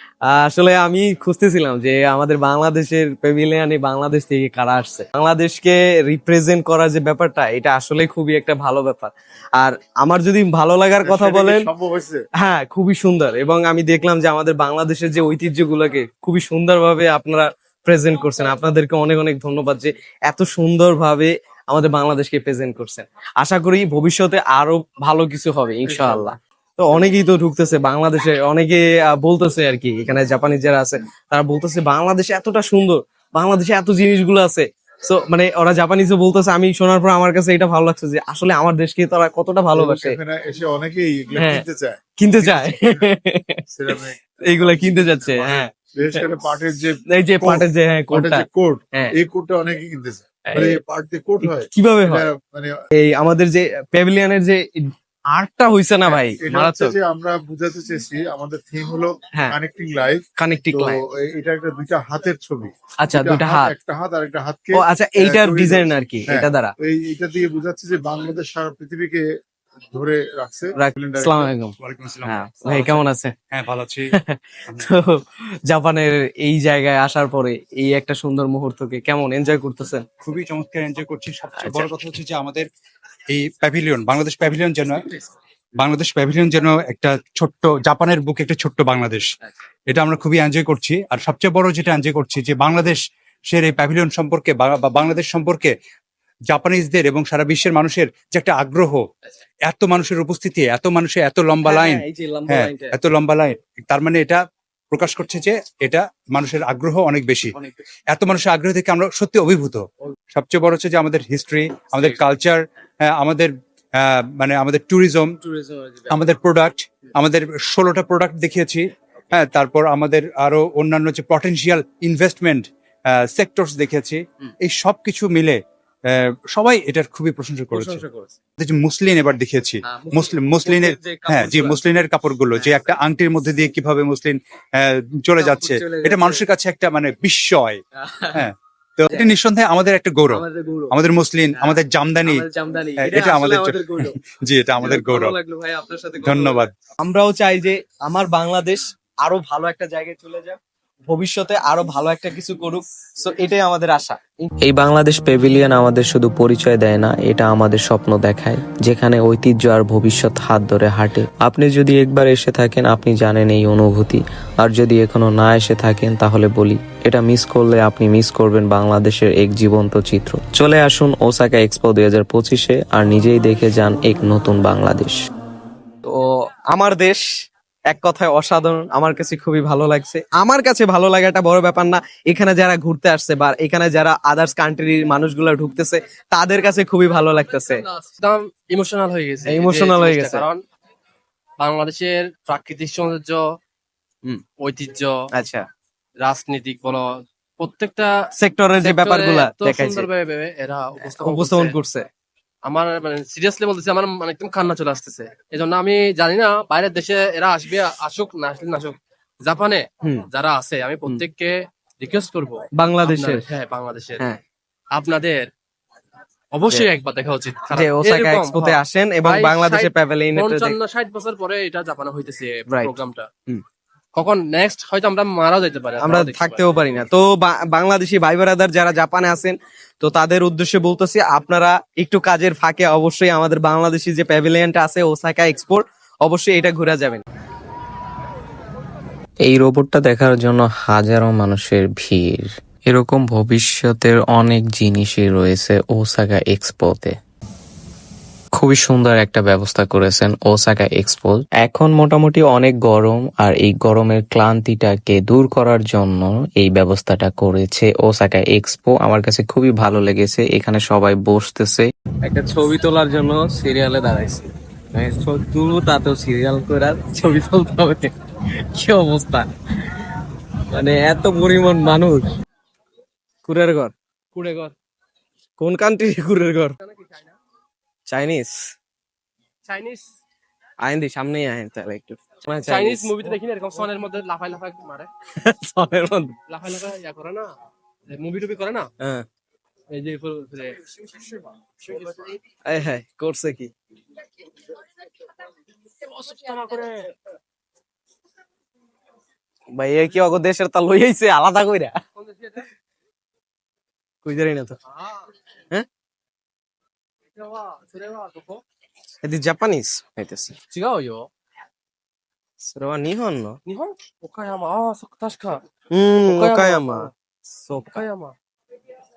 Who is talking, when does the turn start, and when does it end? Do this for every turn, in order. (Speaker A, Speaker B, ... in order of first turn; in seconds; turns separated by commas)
Speaker A: 0.2-11.7, Speaker B: 11.0-12.2, Speaker A: 12.4-40.2, Speaker B: 25.9-26.3, Speaker B: 39.7-43.0, Speaker A: 41.3-41.6, Speaker A: 42.2-43.6, Speaker B: 43.7-52.7, Speaker A: 44.5-46.3, Speaker A: 47.1-49.1, Speaker A: 50.5-50.8, Speaker A: 51.4-52.3, Speaker A: 53.0-57.0, Speaker B: 56.1-60.2, Speaker A: 60.4-61.0, Speaker B: 60.7-69.2, Speaker A: 63.0-63.7, Speaker A: 64.7-66.7, Speaker B: 69.9-71.5, Speaker A: 70.8-73.3, Speaker C: 71.8-74.1, Speaker A: 74.1-80.1, Speaker C: 80.2-82.7, Speaker A: 81.6-81.9, Speaker C: 83.3-85.1, Speaker C: 85.8-89.3, Speaker C: 89.9-95.7, Speaker C: 96.5-99.0, Speaker C: 99.6-107.5, Speaker A: 101.6-102.9, Speaker C: 108.1-115.4, Speaker A: 115.4-116.2, Speaker C: 116.1-128.0, Speaker A: 127.7-128.4, Speaker C: 128.6-137.8, Speaker A: 129.8-132.0, Speaker A: 132.5-133.0, Speaker A: 135.4-136.4, Speaker A: 137.9-138.5, Speaker C: 138.3-142.4, Speaker A: 139.1-139.3, Speaker A: 140.3-140.9, Speaker A: 141.5-144.2, Speaker C: 143.0-145.3, Speaker A: 144.8-154.5, Speaker C: 146.2-146.7, Speaker D: 154.6-175.2, Speaker A: 176.0-177.2, Speaker A: 177.9-187.8, Speaker E: 187.8-190.6, Speaker A: 189.4-190.4, Speaker E: 191.6-193.4, Speaker E: 194.6-195.3, Speaker A: 195.3-195.7, Speaker E: 196.2-198.1, Speaker A: 198.3-200.1, Speaker E: 198.8-201.7, Speaker A: 201.2-202.1, Speaker E: 202.7-214.2, Speaker A: 212.7-213.4, Speaker E: 214.9-215.5, Speaker E: 216.5-223.3, Speaker A: 217.7-220.8, Speaker A: 222.7-222.9, Speaker E: 224.1-227.0, Speaker A: 226.0-237.2, Speaker D: 239.4-247.2, Speaker D: 248.5-261.9, Speaker A: 262.2-269.5, Speaker A: 270.7-272.3, Speaker A: 273.4-273.9, Speaker E: 274.3-274.7, Speaker A: 275.6-276.8, Speaker E: 276.8-277.3, Speaker A: 278.1-278.7, Speaker E: 279.7-280.1, Speaker A: 280.8-283.2, Speaker E: 282.7-285.1, Speaker A: 285.3-286.3, Speaker E: 286.5-287.5, Speaker E: 288.1-288.9, Speaker A: 289.0-289.2, Speaker E: 289.9-292.4, Speaker A: 292.6-293.7, Speaker E: 296.0-297.1, Speaker A: 299.7-302.0, Speaker E: 302.2-302.7, Speaker A: 304.2-304.8, Speaker E: 307.4-308.6, Speaker A: 309.2-310.6, Speaker E: 310.7-311.3, Speaker A: 312.6-313.6, Speaker E: 313.7-315.6, Speaker A: 315.9-318.0, Speaker E: 316.2-317.1, Speaker E: 317.9-318.3